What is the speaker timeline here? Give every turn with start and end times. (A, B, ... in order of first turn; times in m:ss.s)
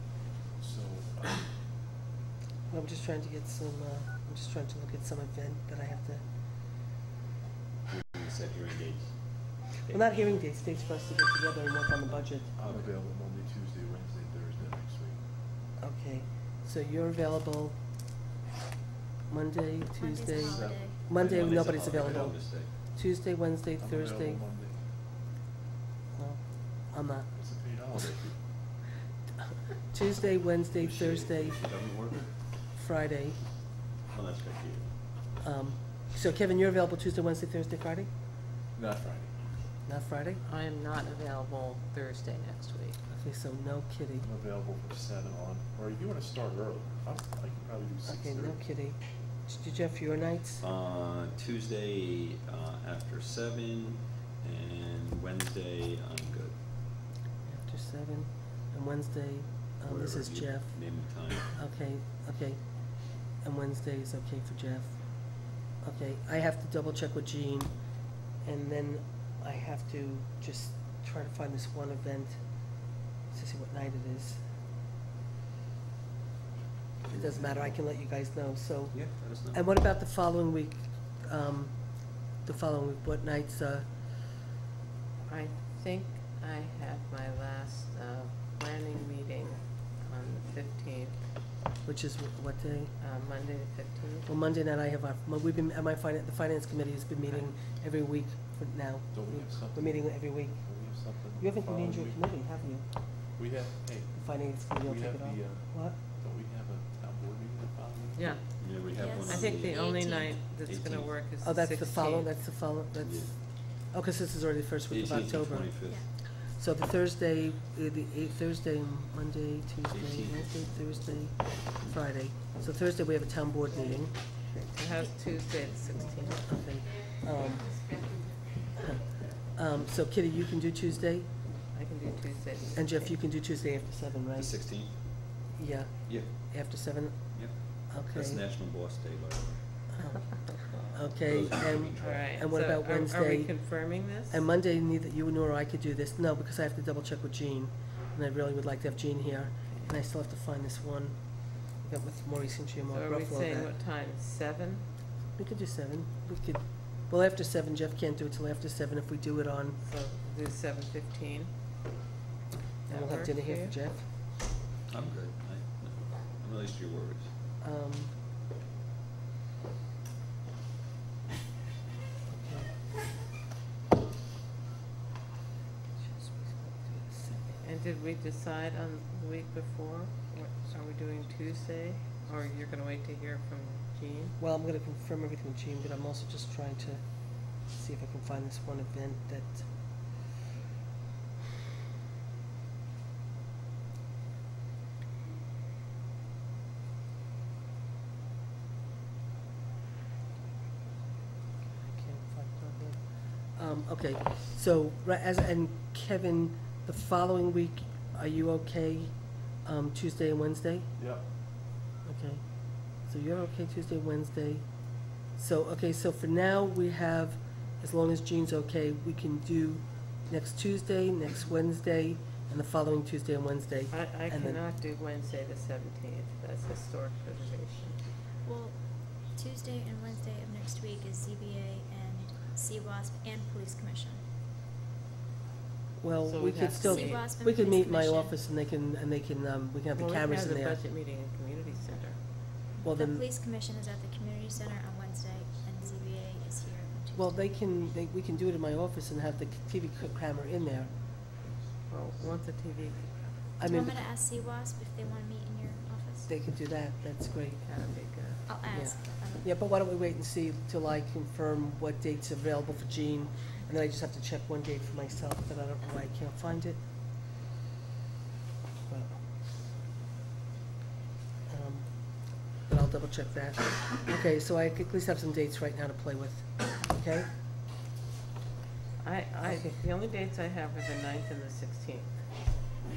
0:00.6-0:01.5 A
0:02.7-0:06.2 B
0:07.9-0:10.4 C
0:09.9-0:12.5 B
0:12.1-0:12.9 C
0:12.5-0:15.2 A
0:15.8-0:17.8 B
0:19.3-0:24.4 B
0:20.0-0:21.0 D
0:20.4-0:22.5 A
0:21.2-0:22.7 C
0:23.8-0:24.8 A
0:26.1-0:27.3 B
0:27.3-0:28.4 A
0:29.9-0:31.6 B
0:30.8-0:32.3 C
0:32.7-0:33.4 B
0:34.0-0:34.9 C
0:35.4-0:38.1 B
0:38.7-0:39.5 A
0:39.8-0:40.4 B
0:40.4-0:43.0 E
0:43.1-0:44.3 B
0:44.2-0:48.8 A
0:48.0-0:50.6 B
0:50.6-0:56.6 C
0:57.4-1:01.0 B
0:59.8-1:01.6 C
1:01.5-1:02.6 B
1:03.1-1:07.7 B
1:08.4-1:12.4 B
1:13.3-1:14.4 B
1:17.1-1:23.8 B
1:17.1-1:17.8 C
1:18.9-1:19.6 C
1:25.3-1:31.2 E
1:31.8-1:32.9 B
1:33.0-1:34.3 E
1:34.2-1:42.9 B
1:39.1-1:42.3 A
1:43.2-1:48.4 A
1:44.1-1:46.0 B
1:48.1-1:48.5 E
1:48.6-1:49.8 C
1:48.9-1:50.4 D
1:49.2-1:52.3 E
1:50.6-1:51.1 C
1:51.4-2:04.1 B
1:53.0-1:53.3 C
1:54.9-1:56.1 C
1:59.9-2:00.5 C
2:04.3-2:06.5 E
2:06.4-2:07.7 B
2:08.8-2:09.0 B
2:09.5-2:11.4 B
2:11.7-2:13.1 E
2:12.7-2:14.5 B
2:14.3-2:15.1 C
2:15.5-2:18.4 B
2:16.1-2:16.3 C
2:17.3-2:19.6 C
2:20.0-2:33.7 B
2:20.9-2:22.4 C
2:22.0-2:24.5 E
2:29.7-2:30.0 E
2:32.9-2:34.8 E
2:35.4-2:39.8 B
2:39.8-2:41.5 E
2:42.9-2:44.0 B
2:42.9-2:43.8 E
2:44.9-2:47.3 C
2:47.6-2:48.1 B
2:52.3-2:52.7 B
2:56.0-2:57.6 B
2:57.6-3:04.4 E
3:04.4-3:09.7 B
3:21.8-3:30.9 B
3:31.0-3:31.3 A
3:32.0-3:44.6 B
3:43.9-3:48.0 E
3:48.4-3:54.2 D
3:56.0-4:00.8 B
3:56.2-3:57.3 E
3:56.8-3:58.4 D
3:59.9-4:02.5 E
4:02.8-4:07.5 D
4:02.8-4:03.2 B
4:07.1-4:10.9 B
4:11.9-4:13.1 E
4:13.6-4:14.1 B
4:13.6-4:16.3 D
4:16.3-4:17.6 B
4:17.6-4:18.5 E
4:18.4-4:19.5 D
4:18.6-4:26.8 B
4:28.9-4:29.2 B
4:31.5-4:37.3 B
4:39.0-4:42.2 E
4:39.4-4:39.8 B